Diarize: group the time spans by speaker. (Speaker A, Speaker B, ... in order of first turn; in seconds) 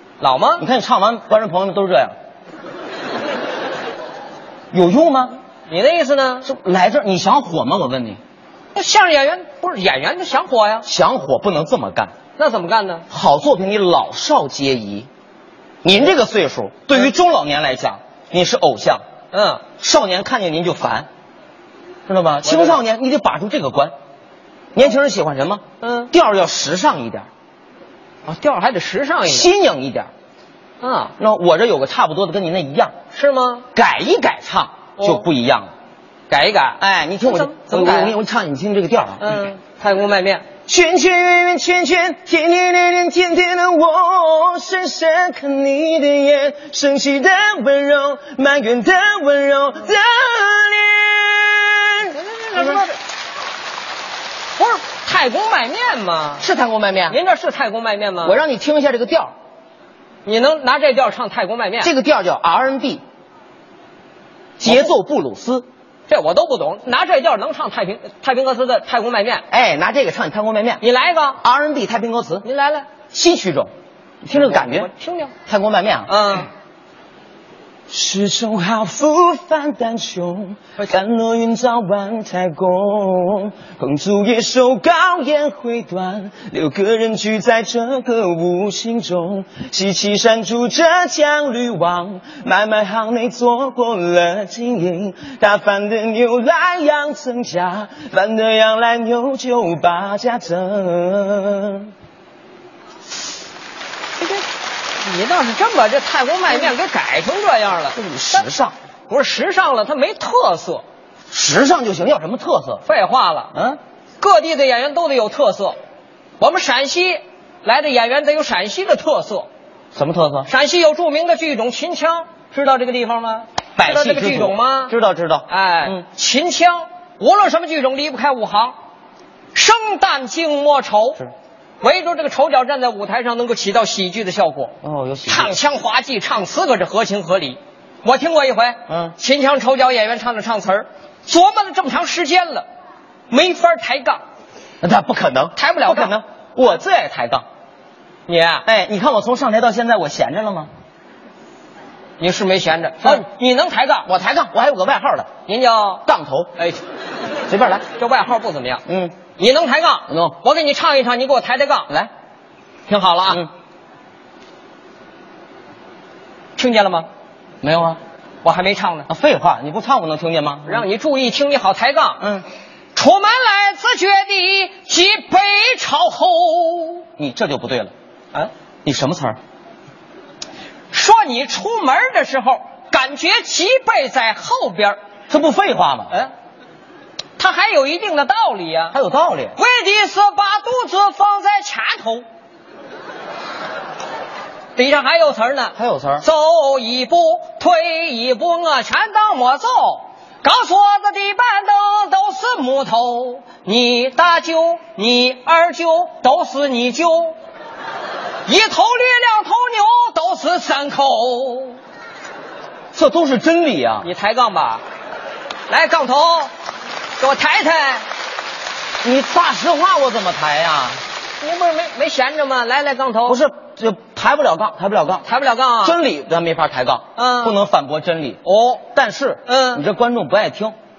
Speaker A: 0.2-0.6, 5.7-6.4, 8.7-10.8, 12.4-13.0, 19.3-19.6, 22.4-22.8, 25.8-26.1, 28.2-29.5, 30.8-31.1, 33.1-33.6, 35.0-35.2, 36.3-38.1, 39.2-40.4, 52.1-52.9, 54.6-56.5, 57.1-58.4, 60.2-61.9, 64.6-64.9, 66.1-69.4, 70.8-71.4, 72.4-72.9, 74.3-75.3, 76.1-76.5, 105.0-108.5, 109.1-110.8, 112.8-113.5, 114.2-115.8, 116.4-119.5, 120.5-124.9, 125.5-128.8, 129.5-134.7, 135.2-142.7, 143.3-144.2, 145.6-146.1, 148.3-148.7, 152.2-154.1, 155.5-156.0, 157.9-158.8, 159.4-161.9, 162.9-163.5, 166.6-167.1, 168.4-169.1, 170.7-172.2, 172.9-177.0, 180.9-185.0, 187.4-188.9, 189.6-192.2, 194.8-207.3, 208.5-211.8, 214.0-214.8, 215.7-216.5, 217.2-218.0, 221.4-223.4, 225.2-226.0, 227.2-227.6, 228.4-228.8, 229.5-229.8
Speaker B: 0.6-2.1, 4.7-5.4, 6.4-8.2, 10.8-12.1, 13.1-15.1, 15.8-19.0, 19.8-21.1, 22.1-23.9, 24.7-27.3, 29.2-30.1, 31.2-32.9, 33.7-35.7, 36.8-39.5, 40.7-52.9, 56.4-57.2, 58.2-59.3, 61.8-63.0, 64.6-65.6, 69.5-70.8, 71.4-72.4, 73.1-73.7, 74.2-74.9, 75.5-76.1, 77.9-101.9, 107.9-108.7, 111.3-112.8, 113.5-113.8, 119.9-120.5, 123.8-126.0, 134.8-135.6, 138.9-139.2, 144.8-147.4, 148.7-150.7, 154.1-155.3, 156.1-156.5, 157.5-157.8, 158.9-159.1, 160.1-160.3, 167.6-168.0, 169.1-170.8, 177.2-177.9, 178.8-179.4, 185.3-186.1, 188.9-189.6, 195.8-196.2, 212.9-214.1, 219.0-221.0, 223.2-225.2, 225.8-228.4, 228.9-230.7